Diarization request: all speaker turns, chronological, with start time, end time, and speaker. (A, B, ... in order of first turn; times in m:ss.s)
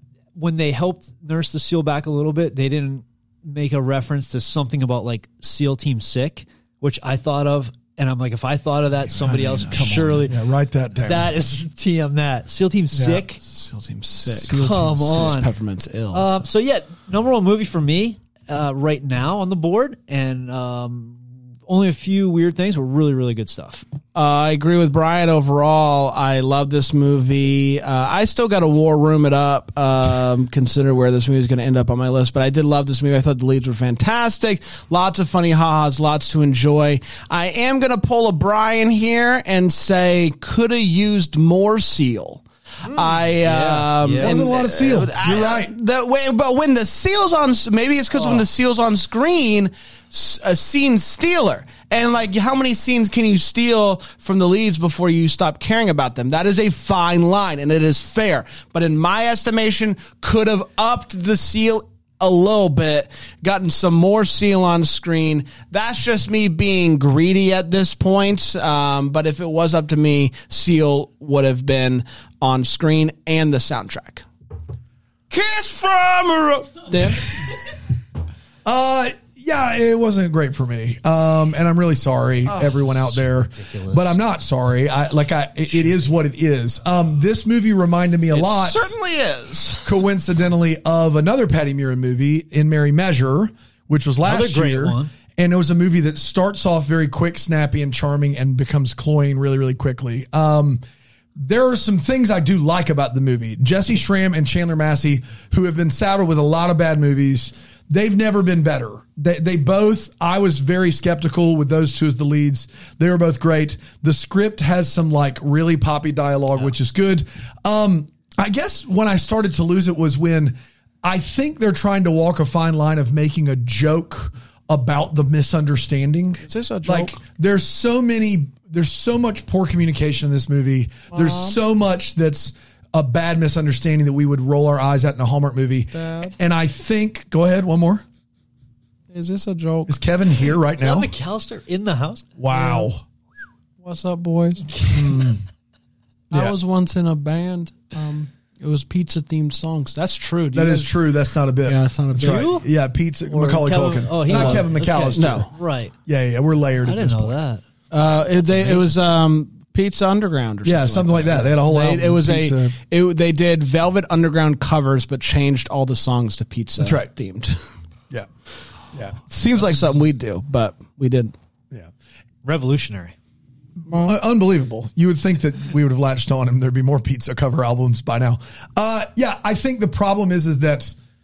0:00.4-0:10.4 A
0:09.2-0:11.3 B
0:09.3-0:10.2 C
0:11.0-0:13.4 A
0:12.9-0:13.2 B
0:13.4-0:16.4 C
0:14.4-0:15.5 A
0:14.5-0:15.0 B
0:16.1-0:23.8 A
0:24.2-1:14.3 C
0:42.9-0:44.4 A
0:44.2-0:45.7 B
0:48.2-0:48.4 A
1:15.3-1:17.6 C
1:18.6-1:28.9 B
1:22.5-1:22.8 C
1:23.5-1:24.2 A
1:28.3-1:29.9 C
1:29.8-1:40.8 B
1:34.2-1:35.1 A
1:41.4-2:18.0 B
2:06.4-2:07.2 C
2:11.1-2:11.6 C
2:15.9-2:16.3 C
2:19.1-2:20.0 C
2:19.9-2:21.1 B
2:20.8-2:22.3 A
2:22.4-2:23.0 B
2:22.5-2:22.9 C
2:23.8-2:25.3 C
2:24.9-2:25.4 B
2:26.3-2:30.9 C
2:30.5-2:35.5 B
2:31.6-2:32.5 C
2:32.2-2:32.7 A
2:33.3-2:35.9 A
2:34.3-2:35.5 C
2:36.1-2:37.4 B
2:36.8-2:37.6 A
2:37.9-2:47.6 C
2:38.4-2:39.0 A
2:40.6-2:42.8 B
2:46.8-2:47.1 B
2:48.9-2:49.2 B
2:49.3-2:51.4 C
2:52.4-2:53.1 A
2:53.9-2:54.1 C
2:53.9-3:01.0 B